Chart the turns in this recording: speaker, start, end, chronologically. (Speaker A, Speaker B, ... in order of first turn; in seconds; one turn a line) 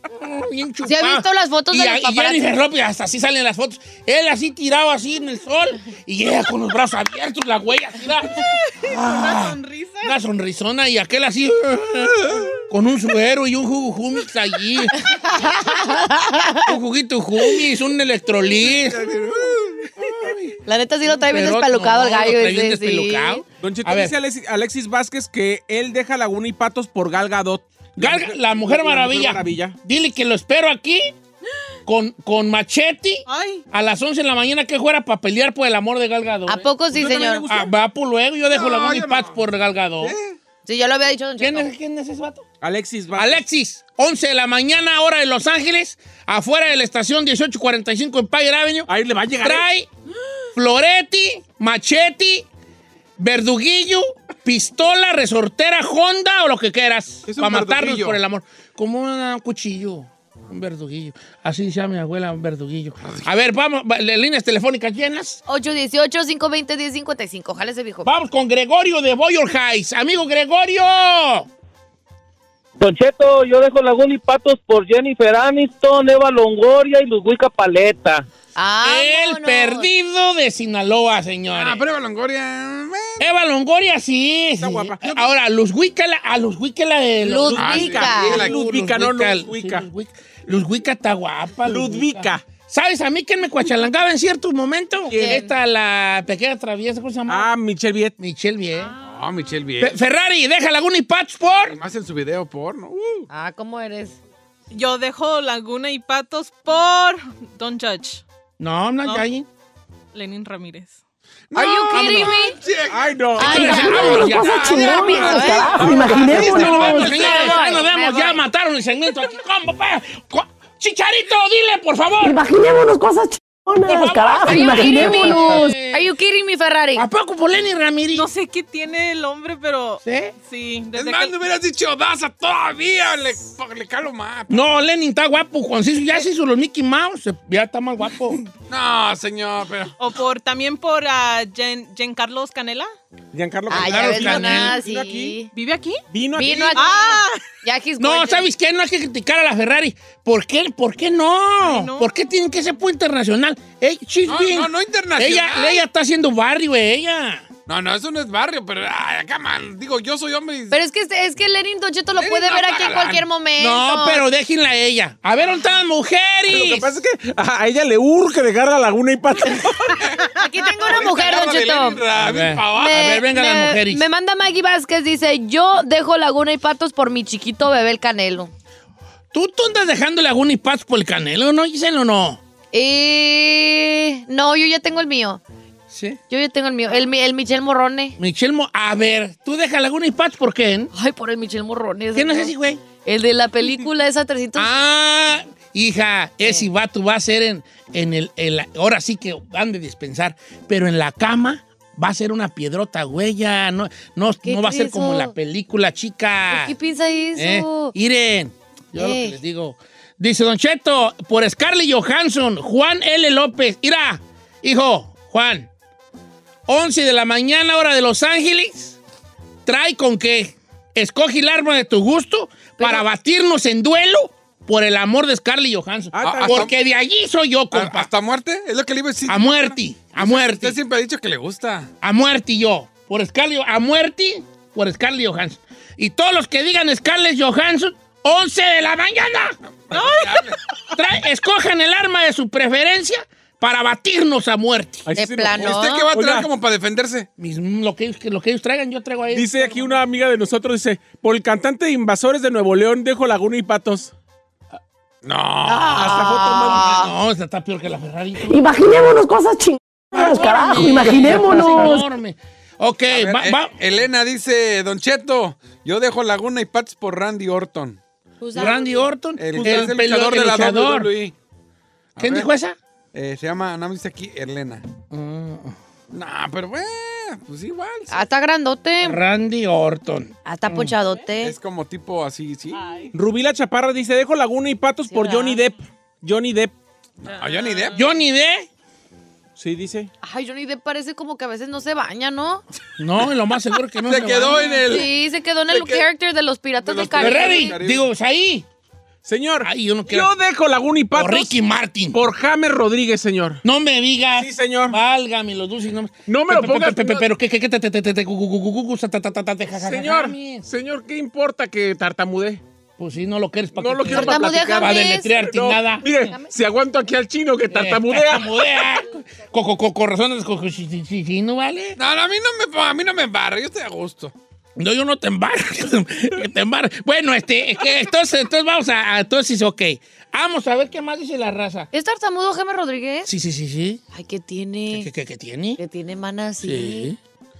Speaker A: 0.1-15.0
Speaker B: 0.8-2.6
Speaker C: 8.8-10.1
Speaker B: 15.1-16.7
Speaker A: 16.7-19.1
Speaker D: 18.5-20.2
Speaker A: 20.0-24.1
Speaker B: 20.6-23.4
Speaker E: 23.6-29.8
Speaker A: 28.0-31.1
Speaker A: 31.9-36.7
Speaker C: 33.3-33.6
Speaker B: 36.5-37.5
Speaker E: 36.9-37.7
Speaker A: 37.5-40.1
Speaker D: 38.5-39.4
Speaker D: 40.0-40.4
Speaker B: 40.6-41.7
Speaker A: 41.4-42.5
Speaker E: 42.6-43.4
Speaker A: 43.1-48.9
Speaker E: 48.9-49.6
Speaker A: 49.4-49.9
Speaker A: 50.5-52.5
Speaker A: 53.2-65.4
Speaker D: 57.2-58.2
Speaker D: 63.0-63.3
Speaker B: 65.5-68.1
Speaker A: 68.0-71.5
Speaker F: 72.8-78.2
Speaker B: 78.5-79.9
Speaker A: 78.8-81.8
Speaker D: 81.5-83.3
Speaker A: 83.2-97.5
Speaker E: 84.6-85.3
Speaker B: 87.2-88.5
Speaker E: 87.5-89.9
Speaker D: 87.5-88.5
Speaker E: 91.6-92.4
Speaker E: 95.1-95.4
Speaker B: 95.2-95.5
Speaker E: 97.3-98.1
Speaker A: 98.2-98.9
Speaker D: 99.0-100.0
Speaker A: 99.8-101.8
Speaker D: 101.7-103.3
Speaker B: 103.3-104.2
Speaker C: 104.7-108.2
Speaker A: 108.6-109.5
Speaker C: 110.1-111.0
Speaker D: 111.5-113.3
Speaker B: 111.5-112.6
Speaker A: 111.9-112.3
Speaker E: 112.9-114.1
Speaker B: 113.4-114.3
Speaker A: 113.4-122.4
Speaker G: 113.5-117.2
Speaker D: 114.3-116.5
Speaker B: 114.9-115.7
Speaker E: 115.7-116.9
Speaker B: 116.8-118.4
Speaker G: 122.2-125.8
Speaker A: 123.8-126.1
Speaker B: 124.4-127.1
Speaker A: 126.9-128.3
Speaker C: 128.1-131.3
Speaker A: 130.0-130.3
Speaker D: 130.9-134.6
Speaker A: 134.5-138.4
Speaker D: 138.7-139.9
Speaker C: 140.0-142.9
Speaker E: 143.3-145.3
Speaker B: 143.7-145.5
Speaker A: 143.8-144.8
Speaker C: 145.5-146.0
Speaker E: 146.1-146.8
Speaker B: 146.3-148.5
Speaker C: 146.7-147.4
Speaker A: 148.0-157.5
Speaker C: 151.6-152.1
Speaker D: 154.2-155.8
Speaker D: 157.7-160.8
Speaker B: 160.7-164.2
Speaker D: 162.2-163.2
Speaker A: 163.6-166.9
Speaker E: 166.5-170.0
Speaker B: 170.3-172.1
Speaker D: 170.8-173.2
Speaker A: 172.1-174.0
Speaker B: 172.7-178.5
Speaker A: 179.3-182.4
Speaker B: 182.7-185.4
Speaker A: 185.9-186.2
Speaker B: 186.3-188.2
Speaker A: 188.2-190.9
Speaker B: 190.9-192.5
Speaker A: 192.1-192.8
Speaker B: 193.1-194.7
Speaker A: 194.6-206.7
Speaker B: 196.4-196.7
Speaker B: 204.4-205.3
Speaker B: 206.5-207.9
Speaker A: 207.4-215.7
Speaker B: 208.9-209.4
Speaker A: 216.7-219.0
Speaker A: 219.7-228.1
Speaker B: 222.8-223.1
Speaker E: 226.1-226.7
Speaker D: 226.2-226.7
Speaker D: 227.7-231.9
Speaker A: 229.3-230.8
Speaker A: 232.0-239.6
Speaker D: 239.9-240.6
Speaker C: 239.9-240.4
Speaker A: 240.9-245.1
Speaker E: 245.1-246.5
Speaker B: 245.2-246.1
Speaker D: 245.6-247.3
Speaker A: 247.4-250.0
Speaker E: 249.3-254.1
Speaker D: 255.2-256.1
Speaker B: 255.7-257.1
Speaker E: 255.7-256.9
Speaker A: 256.7-258.6
Speaker G: 258.5-262.1
Speaker A: 260.1-263.7
Speaker D: 263.1-268.0
Speaker B: 268.4-269.1
Speaker A: 268.6-271.1
Speaker D: 269.4-271.3
Speaker E: 269.5-270.0
Speaker D: 272.1-272.5
Speaker A: 272.2-272.8
Speaker D: 273.1-274.8
Speaker A: 275.1-275.8
Speaker D: 276.1-278.2
Speaker B: 278.1-279.2
Speaker A: 279.0-281.0
Speaker B: 280.4-281.6
Speaker D: 281.4-282.8
Speaker C: 282.7-283.1
Speaker E: 283.1-286.7
Speaker B: 285.1-285.6
Speaker D: 287.2-288.0
Speaker C: 287.3-288.0
Speaker A: 287.9-288.7
Speaker E: 289.6-290.1
Speaker B: 290.2-292.6
Speaker A: 293.0-294.7
Speaker D: 294.1-295.1
Speaker B: 294.6-297.8
Speaker D: 295.7-296.1
Speaker D: 296.8-298.1
Speaker A: 297.2-298.6
Speaker E: 299.2-301.5
Speaker A: 299.6-300.3
Speaker A: 301.1-302.2
Speaker E: 302.1-303.6
Speaker A: 303.6-310.7
Speaker E: 304.4-305.0
Speaker E: 306.3-307.2
Speaker E: 309.8-312.6
Speaker A: 313.0-316.1
Speaker E: 313.7-318.6
Speaker B: 314.1-315.5
Speaker B: 316.1-316.5
Speaker A: 317.7-322.0
Speaker D: 322.0-324.3
Speaker A: 324.8-331.9
Speaker B: 331.9-333.3
Speaker A: 333.2-334.0
Speaker B: 334.1-335.1
Speaker A: 334.9-335.8
Speaker B: 335.8-337.1
Speaker A: 336.6-337.2